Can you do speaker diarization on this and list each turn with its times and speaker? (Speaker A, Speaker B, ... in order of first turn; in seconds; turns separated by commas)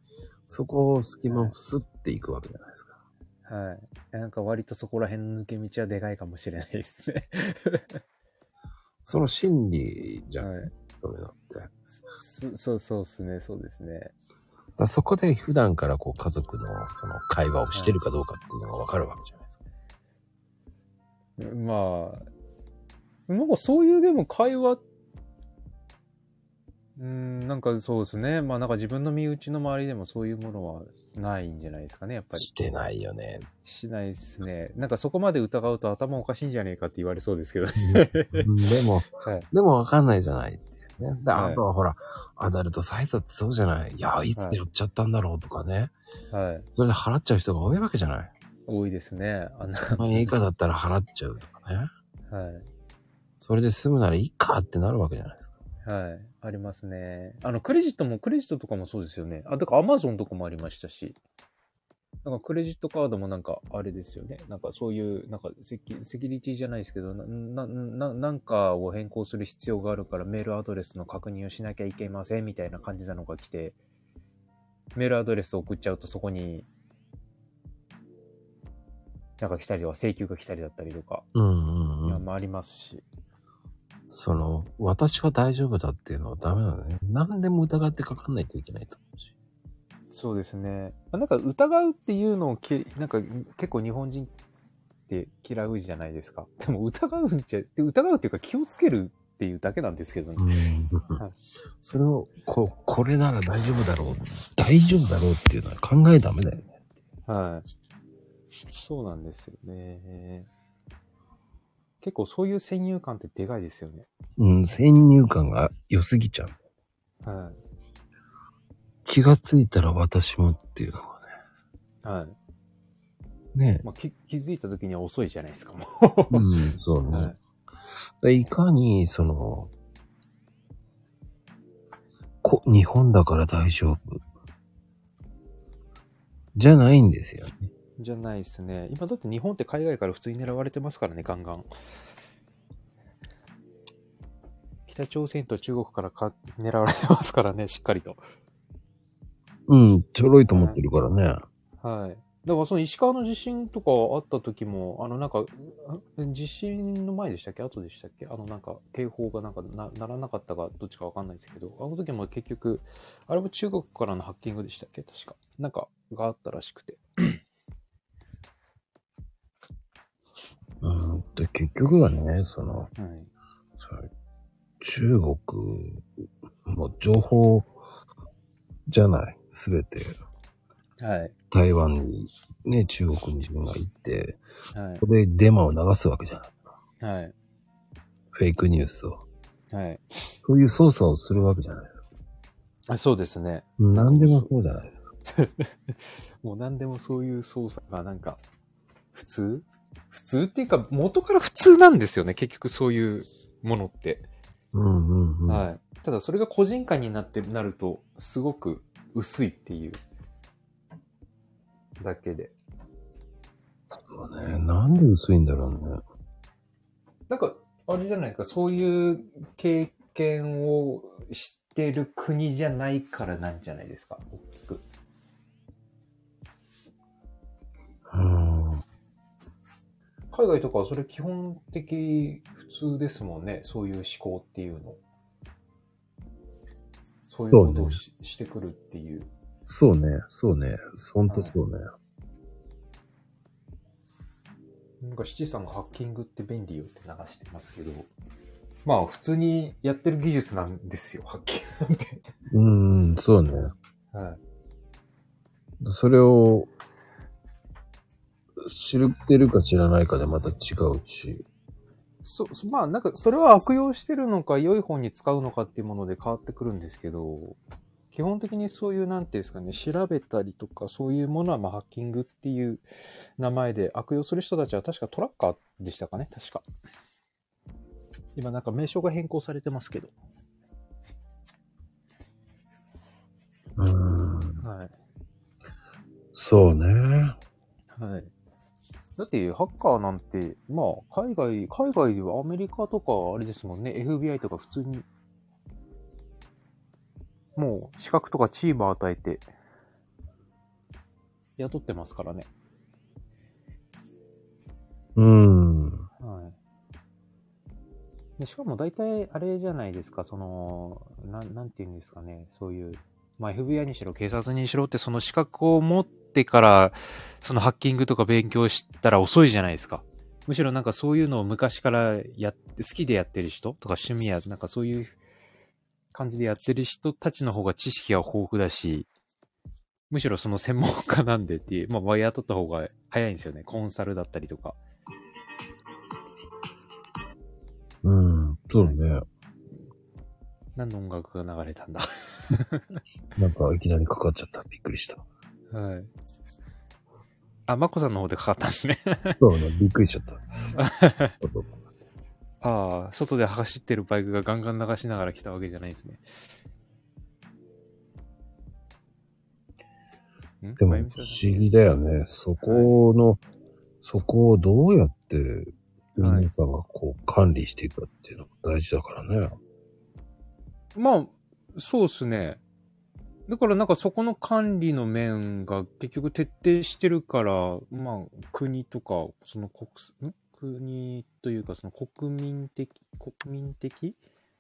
Speaker A: 0.5-2.9, Speaker B: 1.3-1.5, Speaker B: 3.5-8.0, Speaker A: 9.0-11.7, Speaker B: 10.4-10.7, Speaker B: 11.9-14.1, Speaker A: 14.8-19.5, Speaker B: 17.7-18.0, Speaker B: 21.4-22.2, Speaker B: 23.3-24.8, Speaker B: 27.0-32.5, Speaker A: 32.3-33.5, Speaker B: 33.6-38.5, Speaker A: 37.8-45.9, Speaker B: 39.2-39.5, Speaker B: 41.3-41.6, Speaker B: 46.3-46.7, Speaker A: 46.7-48.3, Speaker B: 48.7-50.4, Speaker A: 49.9-51.9, Speaker B: 52.3-52.7, Speaker A: 53.4-55.5, Speaker B: 55.8-61.2, Speaker B: 62.2-73.8, Speaker B: 74.9-76.7, Speaker B: 79.4-81.2, Speaker A: 81.3-82.2, Speaker B: 82.0-83.0, Speaker A: 84.1-89.3, Speaker B: 90.1-94.3, Speaker B: 95.1-100.5, Speaker A: 100.4-101.2, Speaker A: 101.8-106.8, Speaker B: 107.3-107.7, Speaker B: 108.7-110.5, Speaker B: 112.0-114.1, Speaker A: 114.4-116.5, Speaker B: 117.2-117.6, Speaker A: 119.0-121.3, Speaker B: 122.0-122.3, Speaker A: 123.5-123.8, Speaker B: 123.8-126.5, Speaker A: 126.3-127.3, Speaker B: 127.1-127.4, Speaker A: 128.2-129.7, Speaker A: 132.4-134.2, Speaker A: 136.5-137.7, Speaker B: 138.0-141.7, Speaker B: 144.9-148.2, Speaker A: 149.7-151.4, Speaker B: 150.5-150.8, Speaker B: 151.8-167.4, Speaker A: 170.8-172.9, Speaker B: 172.9-173.3, Speaker A: 173.8-174.1, Speaker A: 174.8-176.0, Speaker A: 176.7-177.7, Speaker A: 178.9-180.2, Speaker B: 181.0-181.3, Speaker A: 181.5-184.4, Speaker B: 184.7-185.0, Speaker A: 185.0-186.5, Speaker B: 187.0-187.3, Speaker A: 188.3-189.2, Speaker B: 189.7-190.3, Speaker A: 190.4-191.9, Speaker B: 192.9-194.5, Speaker A: 193.8-195.0, Speaker B: 195.3-198.4, Speaker B: 199.1-204.3, Speaker A: 204.7-205.6, Speaker B: 205.5-210.0, Speaker B: 212.0-212.5, Speaker A: 213.9-216.0, Speaker B: 217.3-224.8, Speaker A: 228.1-228.8, Speaker B: 230.3-235.0, Speaker B: 237.3-239.3, Speaker A: 237.5-238.0, Speaker A: 239.7-241.8, Speaker B: 241.3-241.5, Speaker B: 245.0-248.1, Speaker B: 248.8-252.2, Speaker A: 252.5-253.7, Speaker B: 254.1-254.4, Speaker A: 255.8-256.7, Speaker A: 258.6-261.4, Speaker B: 262.2-267.6, Speaker B: 268.1-272.8, Speaker B: 273.4-276.6, Speaker B: 278.4-280.1, Speaker A: 283.8-284.6, Speaker B: 284.6-284.9, Speaker A: 286.3-287.4, Speaker B: 287.9-288.3, Speaker B: 289.2-295.1, Speaker B: 297.6-299.4, Speaker B: 301.6-302.5, Speaker A: 305.1-306.1, Speaker B: 306.2-306.6, Speaker B: 308.4-325.2, Speaker B: 326.1-329.1, Speaker B: 330.1-334.8, Speaker A: 338.0-339.2, Speaker B: 340.8-342.9, Speaker A: 343.4-345.2, Speaker B: 345.7-346.1, Speaker B: 347.7-349.4, Speaker A: 349.4-350.4, Speaker B: 350.7-351.4, Speaker A: 351.4-351.7, Speaker B: 352.6-356.2, Speaker B: 360.6-361.7, Speaker A: 360.8-363.4, Speaker B: 362.6-362.9, Speaker A: 364.0-369.6, Speaker B: 366.2-366.5, Speaker B: 370.9-372.6, Speaker B: 373.5-384.2